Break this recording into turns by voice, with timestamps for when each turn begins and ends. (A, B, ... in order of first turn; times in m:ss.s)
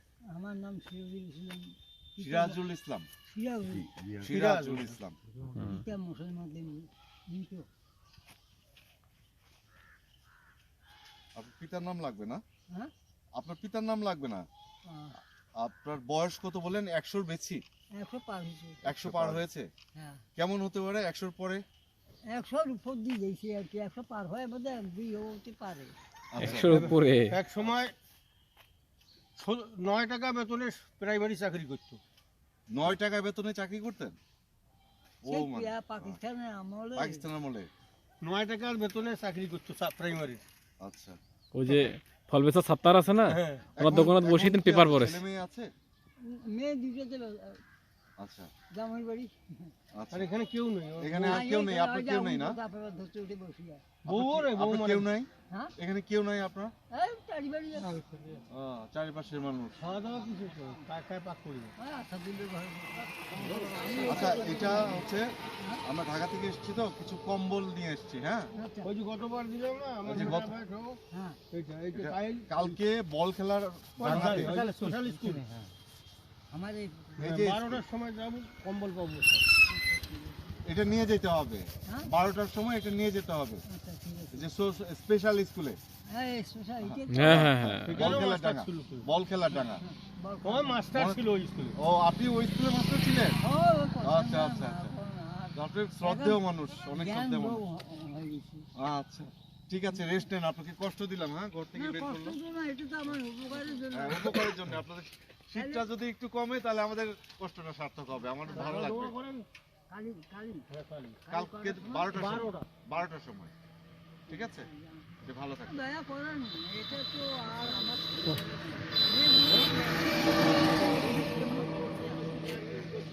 0:00.3-0:02.6 A
0:02.2-0:03.1 B
0:03.2-0:03.9 A
0:04.2-0:05.2 B
0:04.3-0:05.0 C
0:05.5-0:07.7 A
0:05.6-0:05.8 D
0:11.3-0:12.4 B
0:13.3-0:14.4 B
0:14.8-0:15.2 A
0:15.6-0:17.6 B
0:18.0-0:18.8 A
0:18.8-0:19.7 B
0:19.9-0:20.2 A
0:20.4-0:21.6 B
0:22.3-0:25.9 A
0:26.3-0:26.9 B
0:26.4-0:27.3 D
0:26.4-0:27.9 C
0:29.4-0:32.0 C
0:32.7-0:34.2 B
0:35.2-0:36.2 B
0:35.3-0:37.2 A
0:37.0-0:37.7 B
0:38.2-0:40.4 C
0:40.8-0:41.2 B
0:41.5-0:45.2 D
0:43.3-0:43.8 C
0:43.7-0:45.7 B
0:46.2-0:47.6 A
0:48.2-0:48.5 B
0:48.7-0:49.7 A
0:49.9-0:50.3 B
0:50.1-0:51.4 C
0:51.0-0:52.6 B
0:51.2-0:53.8 A
0:54.0-0:56.7 B
0:54.0-0:55.1 C
0:56.9-0:58.0 A
0:57.9-0:58.4 C
0:58.5-0:59.8 B
0:59.8-1:01.7 C
1:01.8-1:05.8 A
1:03.4-1:05.3 B
1:03.4-1:04.5 C
1:05.8-1:08.5 B
1:08.6-1:08.9 A
1:08.8-1:11.0 C
1:10.0-1:10.5 B
1:11.1-1:11.4 A
1:11.5-1:12.8 C
1:11.9-1:14.6 B
1:14.0-1:15.5 C
1:14.0-1:15.4 A
1:16.5-1:17.3 A
1:17.2-1:17.8 B
1:17.2-1:19.4 C
1:19.7-1:20.6 A
1:20.6-1:23.6 B
1:23.7-1:24.5 A
1:24.3-1:25.8 B
1:26.1-1:27.4 A
1:26.8-1:29.8 B
1:27.1-1:28.2 D
1:27.8-1:29.1 C
1:29.5-1:30.8 A
1:30.4-1:31.8 C
1:30.9-1:31.2 B
1:31.7-1:33.4 B
1:33.4-1:38.7 A
1:34.0-1:34.9 B
1:35.5-1:37.6 B
1:38.8-1:42.4 B
1:41.7-1:44.6 A
1:43.5-1:49.1 B
1:45.5-1:45.9 A
1:48.5-1:48.8 A
1:48.5-1:49.4 C
1:49.9-1:50.7 A
1:50.7-1:51.2 C
1:51.2-1:52.5 A
1:51.3-1:53.5 B
1:52.1-1:52.7 C
1:54.3-1:54.7 B
1:54.3-1:55.1 A
1:55.2-1:55.7 B
1:55.6-2:02.6 A